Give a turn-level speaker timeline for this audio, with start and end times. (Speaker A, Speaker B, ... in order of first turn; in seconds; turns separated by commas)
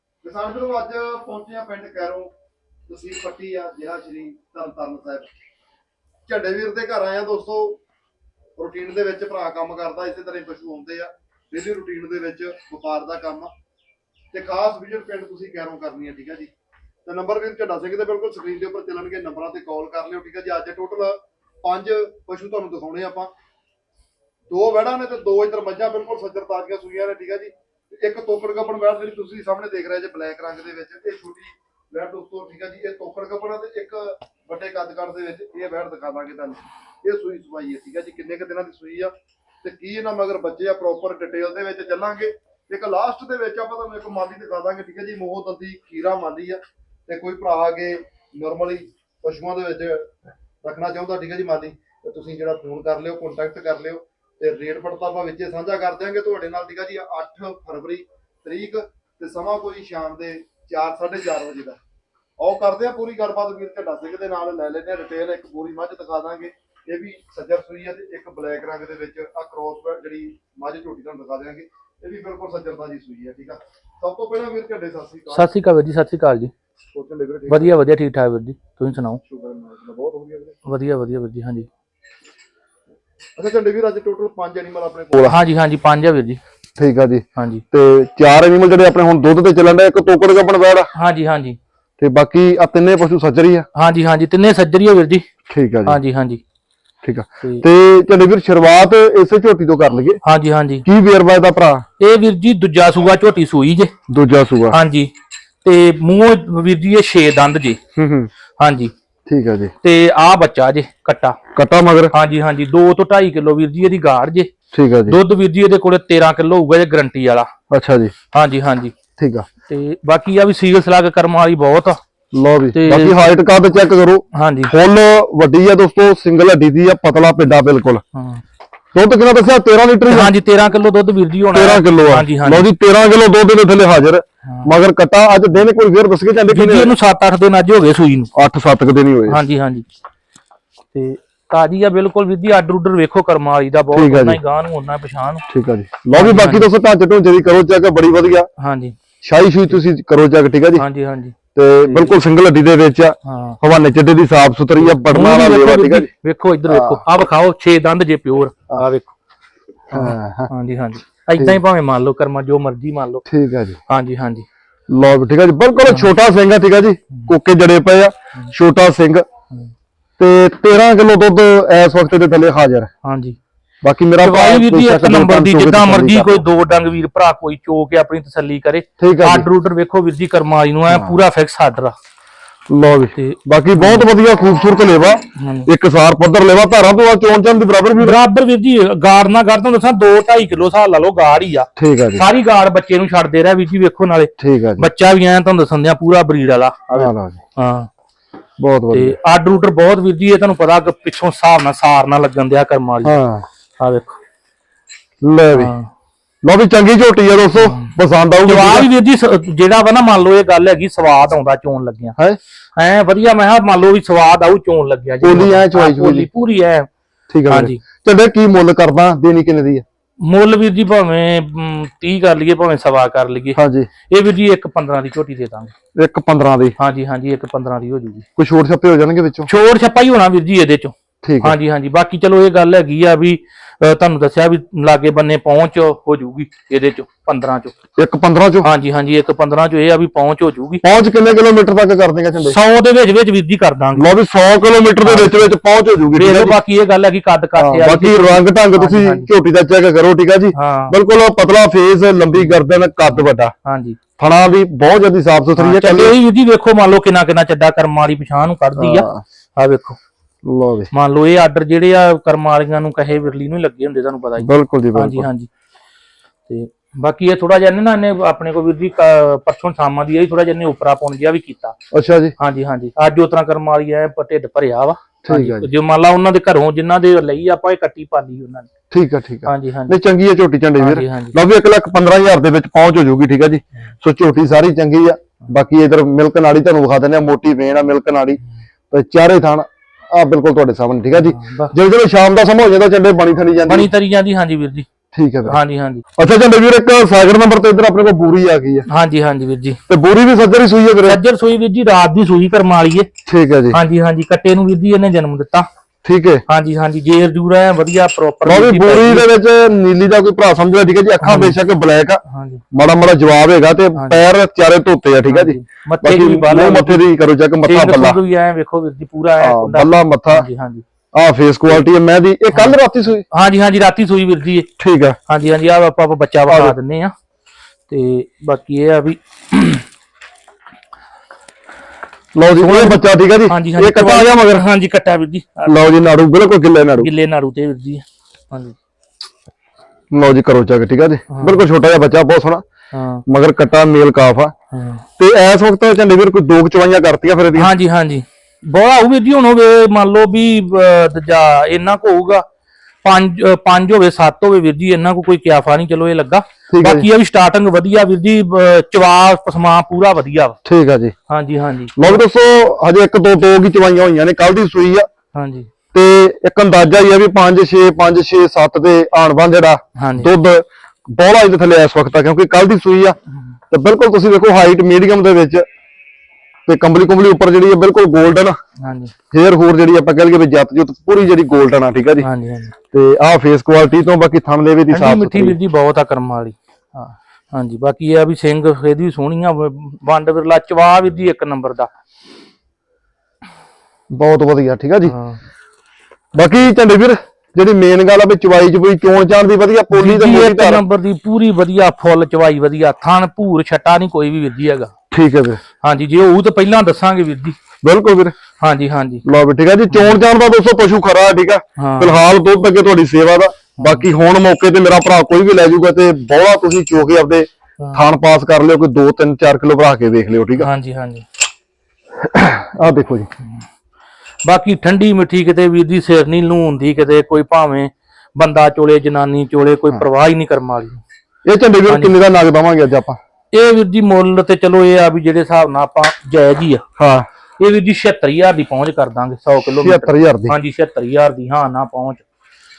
Speaker A: 0.2-2.3, Speaker A: 2.9-5.3, Speaker A: 6.3-7.8, Speaker A: 8.6-13.5, Speaker A: 14.3-16.5, Speaker A: 17.1-23.3, Speaker A: 24.5-61.8, Speaker A: 62.4-75.5, Speaker B: 75.3-76.5, Speaker A: 76.9-77.7, Speaker B: 77.5-79.2, Speaker A: 79.2-80.5, Speaker B: 80.7-81.7, Speaker A: 83.4-85.4, Speaker B: 85.2-86.4, Speaker C: 86.8-90.9, Speaker B: 87.4-87.6, Speaker B: 91.0-91.6, Speaker C: 92.0-93.7, Speaker B: 93.8-95.2, Speaker C: 95.5-96.0, Speaker B: 95.9-96.4, Speaker C: 97.0-100.2, Speaker B: 100.2-100.8, Speaker C: 100.8-101.8, Speaker B: 102.0-103.9, Speaker C: 104.1-104.8, Speaker B: 104.7-105.1, Speaker B: 105.6-107.8, Speaker C: 108.0-108.3, Speaker B: 108.6-108.9, Speaker C: 109.3-109.7, Speaker B: 109.8-111.4, Speaker C: 111.5-112.1, Speaker B: 112.1-114.5, Speaker C: 114.7-115.2, Speaker B: 115.1-117.5, Speaker C: 117.7-118.1, Speaker B: 118.3-118.9, Speaker C: 119.2-119.5, Speaker B: 119.7-122.0, Speaker C: 122.3-128.0, Speaker B: 122.7-123.3, Speaker B: 124.3-124.7, Speaker B: 128.1-128.4, Speaker C: 128.9-130.3, Speaker B: 130.1-132.7, Speaker C: 131.5-136.9, Speaker B: 134.4-134.8, Speaker B: 136.5-138.3, Speaker C: 138.3-139.4, Speaker B: 139.3-139.8, Speaker B: 140.9-145.4, Speaker C: 143.9-144.4, Speaker C: 145.5-148.5, Speaker B: 146.1-146.7, Speaker B: 148.6-148.9, Speaker C: 149.2-150.8, Speaker B: 150.8-151.3, Speaker C: 151.6-156.1, Speaker B: 151.9-152.1, Speaker B: 153.3-153.6, Speaker B: 154.8-159.1, Speaker C: 156.7-157.0, Speaker C: 159.9-160.5, Speaker B: 159.9-163.2, Speaker C: 163.3-163.8, Speaker B: 163.9-164.4, Speaker C: 164.9-169.2, Speaker C: 170.2-172.9, Speaker B: 173.0-173.4, Speaker C: 173.8-176.4, Speaker B: 174.2-182.0, Speaker C: 179.0-179.5, Speaker C: 180.9-181.2, Speaker C: 182.7-188.2, Speaker B: 183.2-184.1, Speaker B: 185.4-185.7, Speaker B: 188.0-197.9, Speaker C: 191.8-192.3, Speaker C: 194.4-194.9, Speaker C: 196.9-197.4, Speaker C: 198.6-199.2, Speaker B: 198.9-203.2, Speaker C: 203.0-203.4, Speaker B: 203.8-204.2, Speaker C: 205.2-205.7, Speaker B: 205.5-205.9, Speaker C: 206.4-208.9, Speaker B: 207.6-212.2, Speaker B: 212.8-216.9, Speaker C: 215.2-216.3, Speaker C: 217.3-219.8, Speaker B: 217.5-217.8, Speaker B: 220.2-225.7, Speaker C: 223.6-223.9, Speaker C: 226.0-226.8, Speaker B: 226.8-228.3, Speaker C: 228.4-229.5, Speaker B: 229.5-237.7, Speaker C: 231.2-231.6, Speaker C: 238.0-238.7, Speaker B: 238.6-240.8, Speaker C: 240.8-242.6, Speaker B: 242.4-244.1, Speaker C: 244.0-246.6, Speaker B: 245.0-245.5, Speaker B: 246.1-249.3, Speaker C: 247.6-253.5, Speaker B: 250.5-251.0, Speaker B: 253.7-254.0, Speaker C: 254.2-256.2, Speaker B: 255.6-260.0, Speaker C: 258.8-259.2, Speaker C: 260.4-260.9, Speaker B: 260.9-265.5, Speaker C: 264.4-265.3, Speaker B: 266.5-271.8, Speaker C: 271.9-272.4, Speaker B: 272.4-278.7, Speaker C: 275.2-275.7, Speaker C: 278.9-288.4, Speaker B: 279.5-280.0, Speaker B: 280.8-281.4, Speaker C: 288.9-293.9, Speaker B: 291.2-291.7, Speaker B: 293.7-294.9, Speaker C: 295.1-295.6, Speaker B: 295.5-296.0, Speaker C: 296.2-298.9, Speaker B: 298.9-299.8, Speaker C: 299.9-301.2, Speaker B: 301.0-303.1, Speaker C: 303.3-303.8, Speaker B: 303.7-305.7, Speaker C: 306.0-306.4, Speaker B: 306.5-309.3, Speaker C: 308.4-318.2, Speaker B: 311.2-311.6, Speaker B: 312.3-312.6, Speaker B: 313.9-314.2, Speaker B: 315.3-317.1, Speaker B: 317.6-320.8, Speaker C: 319.4-320.5, Speaker C: 321.1-323.2, Speaker B: 322.5-322.8, Speaker B: 323.3-324.7, Speaker C: 324.8-325.2, Speaker B: 325.3-327.1, Speaker C: 326.5-326.8, Speaker B: 327.9-329.9, Speaker C: 332.4-334.6, Speaker B: 332.6-335.9, Speaker C: 335.7-337.1, Speaker B: 337.0-338.8, Speaker C: 340.1-342.6, Speaker B: 341.3-341.7, Speaker B: 342.9-343.2, Speaker C: 343.3-344.5, Speaker B: 344.7-345.0, Speaker C: 345.2-347.7, Speaker B: 347.6-352.4, Speaker B: 353.0-360.6, Speaker C: 356.7-357.1, Speaker C: 360.6-361.1, Speaker B: 361.3-362.2, Speaker C: 362.0-365.1, Speaker B: 365.3-365.7, Speaker C: 365.9-373.2, Speaker B: 370.0-370.3, Speaker C: 373.7-375.6, Speaker C: 376.7-378.6, Speaker B: 378.8-379.1, Speaker C: 379.3-382.3, Speaker B: 382.2-382.7, Speaker C: 382.9-385.6, Speaker B: 384.9-391.9, Speaker C: 394.1-395.1, Speaker B: 395.1-395.4, Speaker C: 396.4-400.8, Speaker B: 399.9-404.9, Speaker C: 405.1-405.6, Speaker B: 405.8-407.6, Speaker C: 407.8-408.4, Speaker B: 408.6-409.2, Speaker C: 409.2-420.7, Speaker B: 409.9-410.2, Speaker B: 411.8-412.2, Speaker B: 413.8-414.1, Speaker B: 417.8-418.1, Speaker B: 420.6-421.2, Speaker C: 422.2-423.3, Speaker B: 424.4-431.0, Speaker C: 431.5-433.2, Speaker B: 431.9-432.2, Speaker B: 433.5-436.8, Speaker C: 437.0-437.3, Speaker B: 437.6-442.2, Speaker C: 439.6-440.6